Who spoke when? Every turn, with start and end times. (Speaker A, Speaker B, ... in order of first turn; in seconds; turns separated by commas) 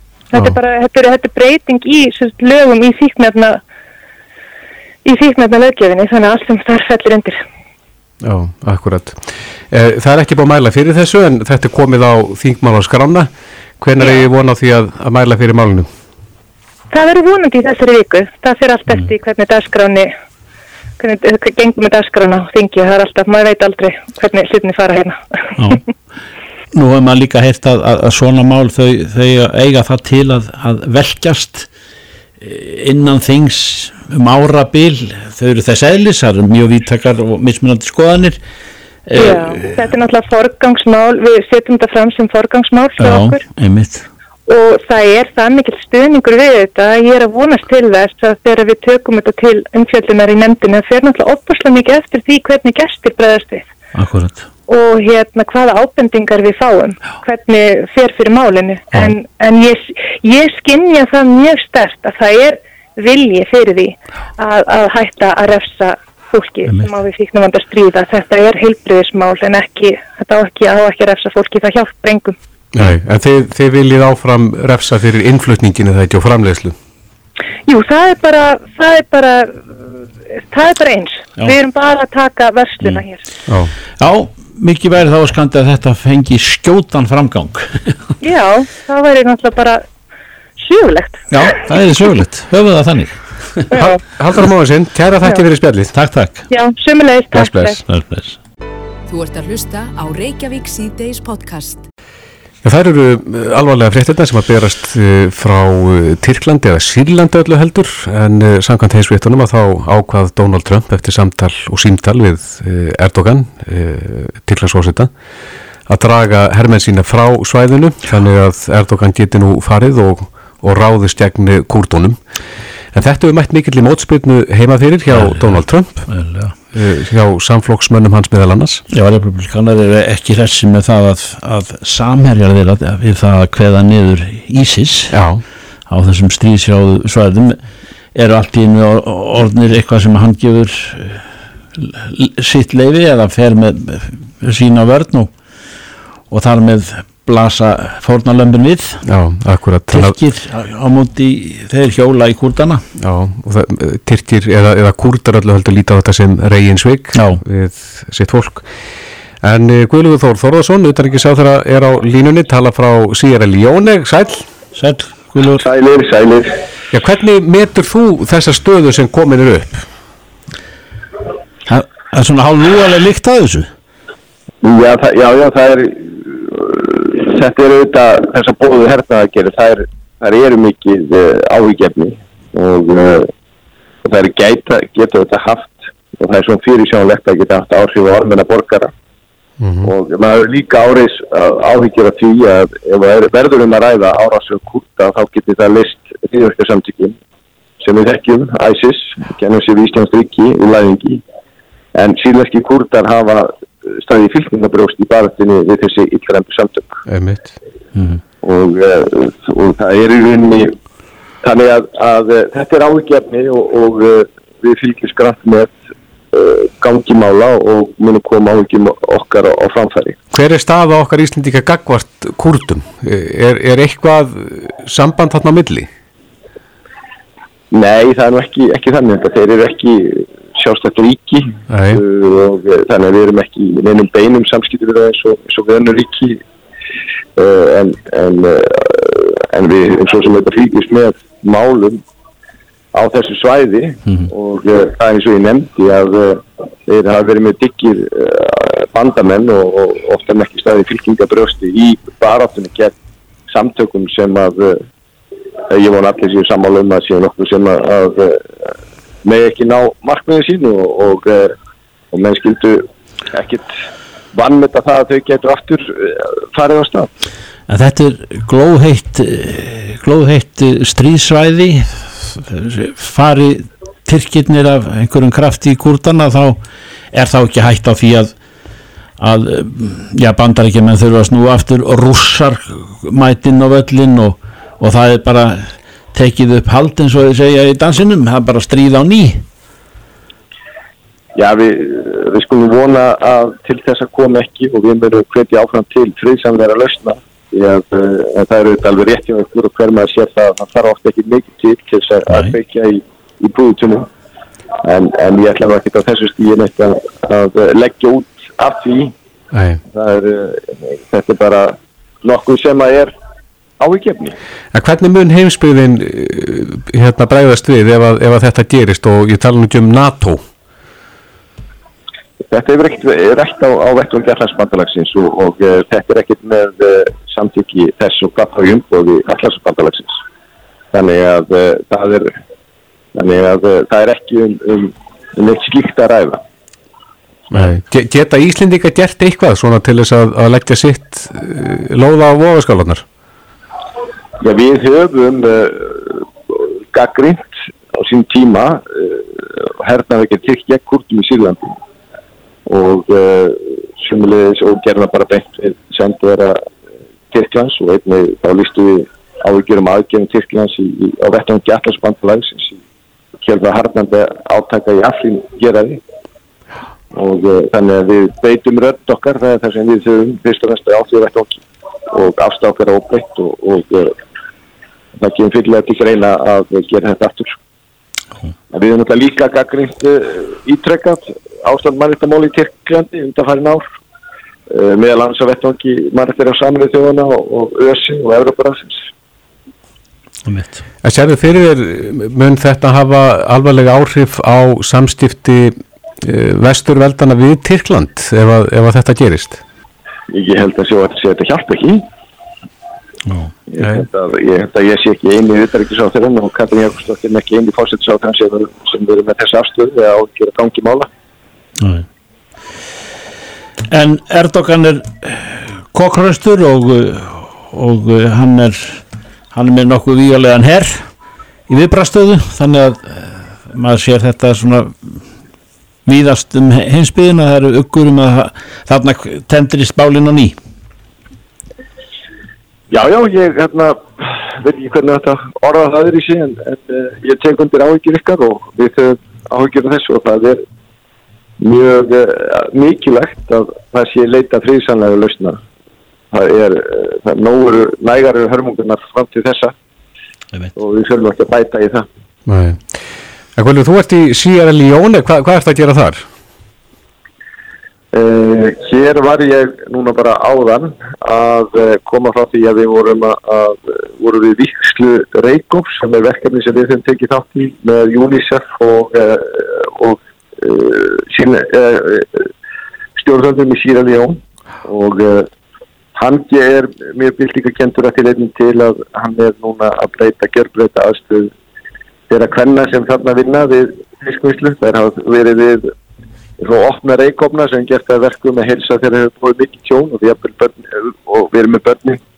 Speaker A: 0.3-3.6, Speaker A: 5.0-7.4, Speaker B: 8.2-15.9, Speaker A: 16.9-20.1, Speaker A: 21.0-25.8, Speaker C: 26.7-31.7, Speaker C: 32.4-38.4, Speaker C: 39.1-39.7, Speaker A: 39.2-43.4, Speaker C: 43.0-44.1, Speaker A: 44.5-53.7, Speaker C: 54.0-54.5, Speaker A: 54.7-72.4, Speaker B: 72.7-76.8, Speaker A: 77.7-79.7, Speaker A: 80.5-83.2, Speaker B: 83.5-83.7, Speaker C: 84.0-88.0, Speaker A: 88.2-89.8, Speaker A: 90.6-91.6, Speaker C: 91.3-93.7, Speaker B: 93.7-95.9, Speaker C: 95.9-96.4, Speaker A: 96.5-97.8, Speaker B: 97.3-97.8, Speaker C: 97.9-98.4, Speaker D: 99.1-101.8, Speaker B: 102.6-115.1, Speaker B: 115.9-122.2, Speaker B: 122.9-126.1, Speaker C: 125.1-126.5, Speaker B: 126.7-128.8, Speaker C: 128.9-135.1, Speaker B: 135.1-135.4, Speaker C: 135.9-137.6, Speaker C: 138.2-141.2, Speaker C: 141.8-145.3, Speaker C: 146.3-149.0, Speaker B: 149.1-150.2, Speaker C: 149.9-152.8, Speaker B: 153.0-158.7, Speaker C: 157.2-157.4, Speaker B: 159.4-164.5, Speaker C: 164.8-165.6, Speaker E: 165.6-166.6, Speaker B: 166.9-169.8, Speaker C: 171.7-173.7, Speaker E: 174.6-183.3, Speaker E: 184.1-188.9, Speaker B: 189.6-189.9, Speaker E: 189.8-197.2, Speaker E: 197.8-201.2, Speaker E: 201.9-207.0, Speaker B: 207.1-207.5, Speaker E: 208.4-210.8, Speaker E: 211.4-215.8, Speaker E: 216.3-220.2, Speaker B: 220.3-225.9, Speaker E: 227.7-236.4, Speaker B: 231.7-232.0, Speaker E: 237.4-242.0, Speaker E: 242.9-252.9, Speaker E: 253.5-254.8, Speaker E: 255.7-258.6, Speaker E: 259.2-261.5, Speaker E: 262.1-263.7, Speaker E: 264.3-267.1, Speaker C: 267.7-276.6, Speaker C: 277.1-278.3, Speaker C: 279.2-289.4, Speaker E: 291.4-304.1, Speaker E: 304.8-309.1, Speaker B: 309.5-309.8, Speaker E: 309.9-313.1, Speaker E: 313.8-314.4, Speaker B: 314.7-320.4, Speaker E: 322.5-330.1, Speaker E: 330.9-332.3, Speaker E: 333.1-336.4, Speaker B: 337.5-343.1, Speaker E: 344.4-351.8, Speaker E: 352.7-356.6, Speaker E: 357.3-362.8, Speaker E: 363.4-366.0, Speaker E: 367.1-374.2, Speaker E: 375.2-377.6, Speaker E: 378.7-383.9, Speaker E: 384.7-389.0, Speaker C: 390.5-390.8, Speaker B: 391.0-399.6, Speaker E: 400.3-402.1, Speaker C: 403.3-403.5, Speaker E: 403.7-411.1, Speaker B: 403.8-404.1, Speaker C: 411.8-412.1, Speaker C: 413.9-419.0, Speaker C: 419.5-421.1, Speaker C: 421.7-425.2, Speaker C: 426.1-430.6, Speaker E: 432.9-440.6, Speaker E: 441.6-445.6, Speaker E: 446.3-449.7, Speaker E: 450.8-452.1, Speaker B: 452.5-452.8, Speaker B: 453.6-456.2, Speaker E: 458.1-472.4, Speaker E: 473.2-475.5, Speaker E: 476.1-481.5, Speaker E: 482.3-485.9, Speaker E: 486.6-492.2